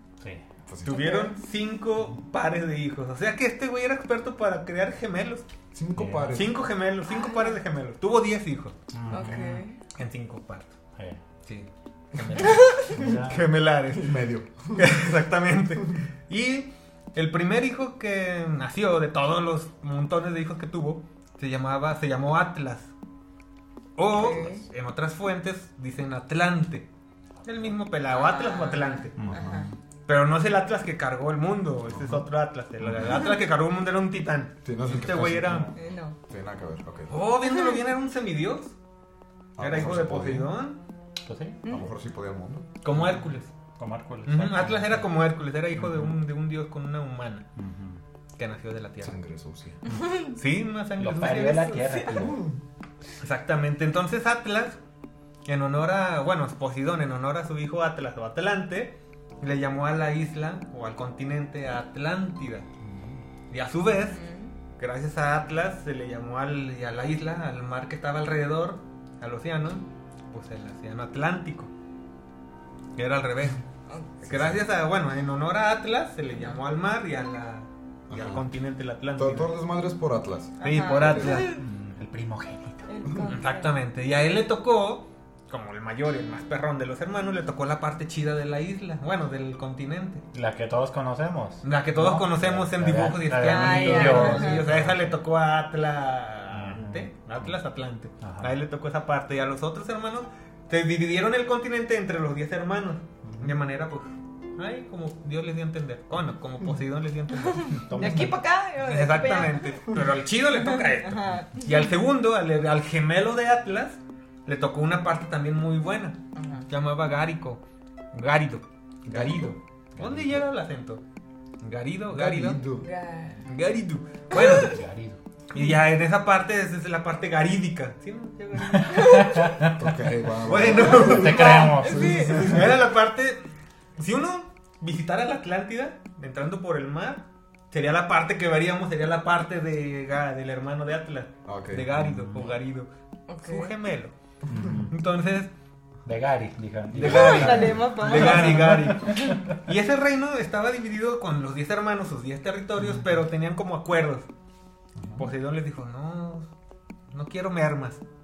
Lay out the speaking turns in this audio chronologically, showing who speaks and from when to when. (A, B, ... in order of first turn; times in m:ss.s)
0:00.7-0:01.1 A
0:00.8-0:05.4 B
0:00.9-0:01.3 C
0:05.7-0:06.6 A
0:05.9-0:06.4 D
0:06.3-0:08.7 B
0:07.1-0:07.6 C
0:08.9-0:09.6 D
0:09.1-0:09.8 C
0:09.9-0:10.8 B
0:11.4-0:14.1 B
0:12.5-0:12.8 C
0:12.9-0:13.4 D
0:13.9-0:15.0 A
0:14.7-0:22.9 B
0:24.0-0:26.9 B
0:24.1-0:24.6 C
0:27.4-0:29.2 B
0:28.1-0:29.7 C
0:29.2-0:29.6 D
0:29.2-0:29.8 A
0:30.1-0:35.7 B
0:31.9-0:32.2 A
0:34.6-0:37.1 A
0:35.8-0:36.2 C
0:37.1-0:38.8 B
0:39.6-0:40.5 A
0:39.6-0:40.8 B
0:41.2-0:41.6 D
0:41.6-0:42.7 A
0:42.8-0:43.5 B
0:43.8-0:45.0 D
0:44.2-0:47.5 B
0:47.6-0:48.0 D
0:48.4-0:49.2 B
0:49.0-0:49.8 A
0:49.9-0:50.3 C
0:50.2-0:52.0 B
0:51.0-0:52.4 D
0:51.7-0:52.2 C
0:52.1-0:52.6 A
0:53.2-0:54.8 B
0:55.4-1:02.7 B
1:02.8-1:03.2 D
1:03.5-1:04.2 B
1:04.1-1:04.5 C
1:04.8-1:11.7 B
1:13.0-1:13.6 B
1:14.2-1:14.6 A
1:14.2-1:19.5 B
1:18.1-1:18.4 A
1:19.2-1:21.5 A
1:20.6-1:21.6 B
1:20.6-1:21.6 C
1:21.4-1:22.9 D
1:22.9-1:23.7 C
1:23.2-1:30.2 B
1:30.3-1:35.1 D
1:31.6-2:01.0 B
1:33.3-1:34.7 C
1:36.5-1:37.5 D
1:38.2-1:38.5 D
1:43.2-1:43.6 A
1:47.6-1:50.0 C
1:47.8-1:48.4 D
1:50.6-1:51.9 C
1:56.4-1:56.7 C
1:59.0-2:00.4 A
2:01.6-2:02.6 B
2:02.1-2:02.9 A
2:02.8-2:03.4 C
2:03.5-2:04.8 B
2:04.3-2:04.7 C
2:04.5-2:05.2 D
2:05.5-2:09.2 B
2:08.6-2:09.9 D
2:08.8-2:09.6 C
2:09.7-2:11.6 A
2:10.4-2:11.6 B
2:10.6-2:12.6 C
2:10.9-2:12.6 D
2:12.3-2:24.1 B
2:21.4-2:21.9 A
2:21.9-2:22.6 D
2:23.3-2:23.7 C
2:24.5-2:24.8 A
2:24.5-2:24.9 D
2:24.9-2:25.5 B
2:26.0-2:29.6 D
2:26.9-2:34.3 B
2:27.0-2:29.3 C
2:35.0-2:35.3 A
2:35.2-2:36.5 B
2:37.1-2:38.0 B